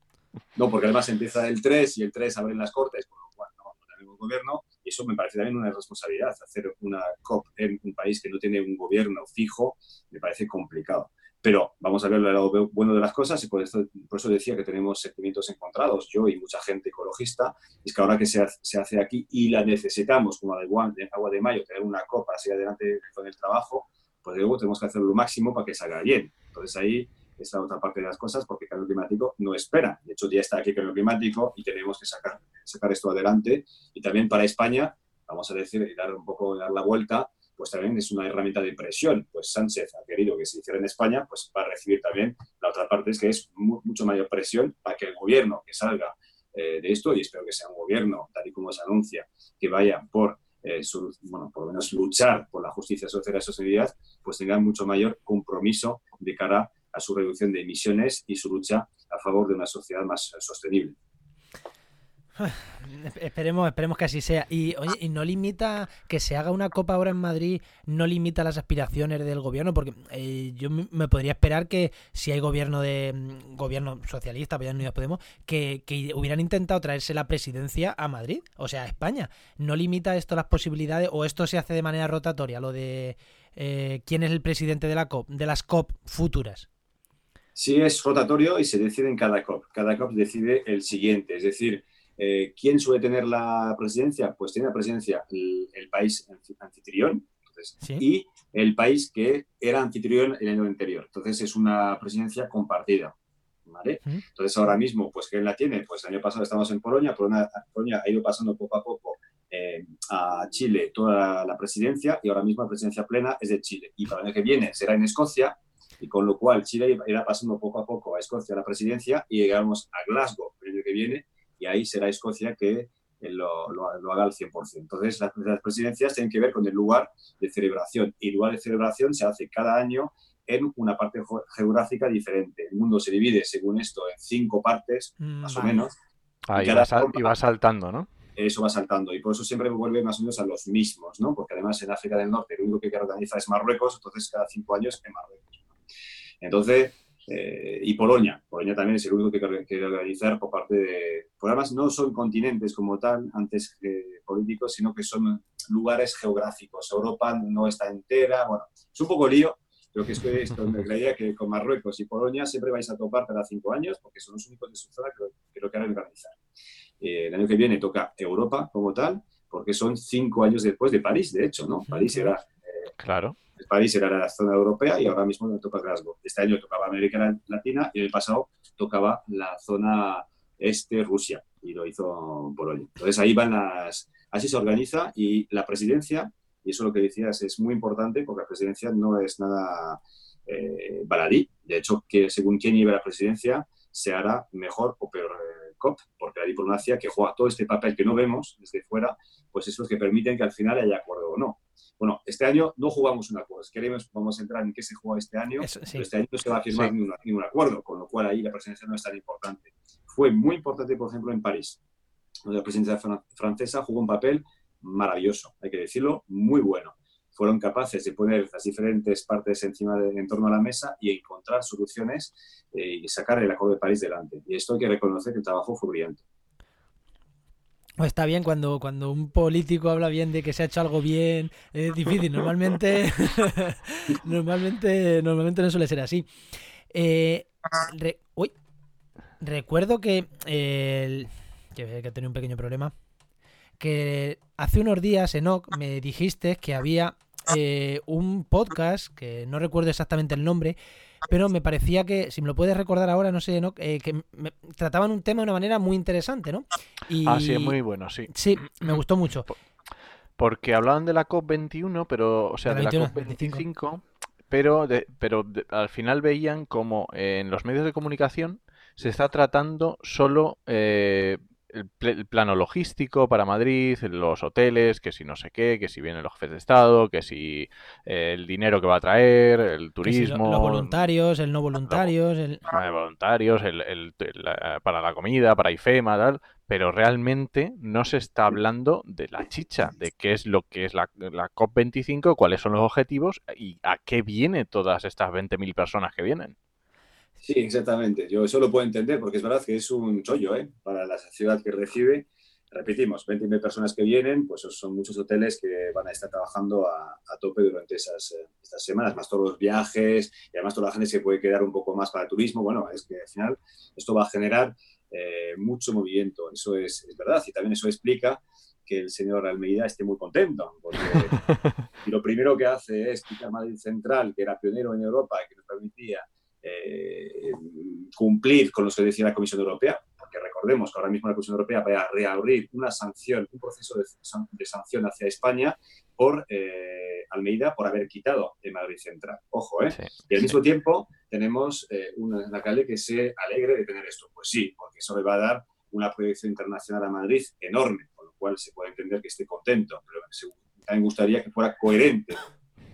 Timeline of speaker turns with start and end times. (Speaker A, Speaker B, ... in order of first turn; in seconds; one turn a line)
Speaker A: 0.6-61.0
Speaker B: 62.4-86.7
Speaker A: 87.6-103.1
Speaker A: 103.7-135.9
Speaker B: 135.2-135.8
Speaker C: 136.5-138.1
Speaker A: 136.5-137.3
Speaker A: 138.4-145.6
Speaker A: 146.4-166.4
Speaker A: 167.0-172.9
Speaker B: 171.9-172.3
Speaker C: 173.0-173.4
Speaker A: 173.6-211.8
Speaker B: 205.6-206.1
Speaker A: 212.4-226.2
Speaker B: 228.0-236.3
Speaker B: 236.9-238.5
Speaker B: 239.4-242.9
Speaker B: 243.8-250.8
Speaker B: 251.3-257.8
Speaker C: 257.2-259.0
Speaker B: 258.3-259.5
Speaker C: 260.4-280.9
Speaker B: 262.7-263.6
Speaker B: 280.0-282.6
Speaker C: 282.7-296.6
Speaker A: 297.4-321.5
Speaker A: 322.0-352.4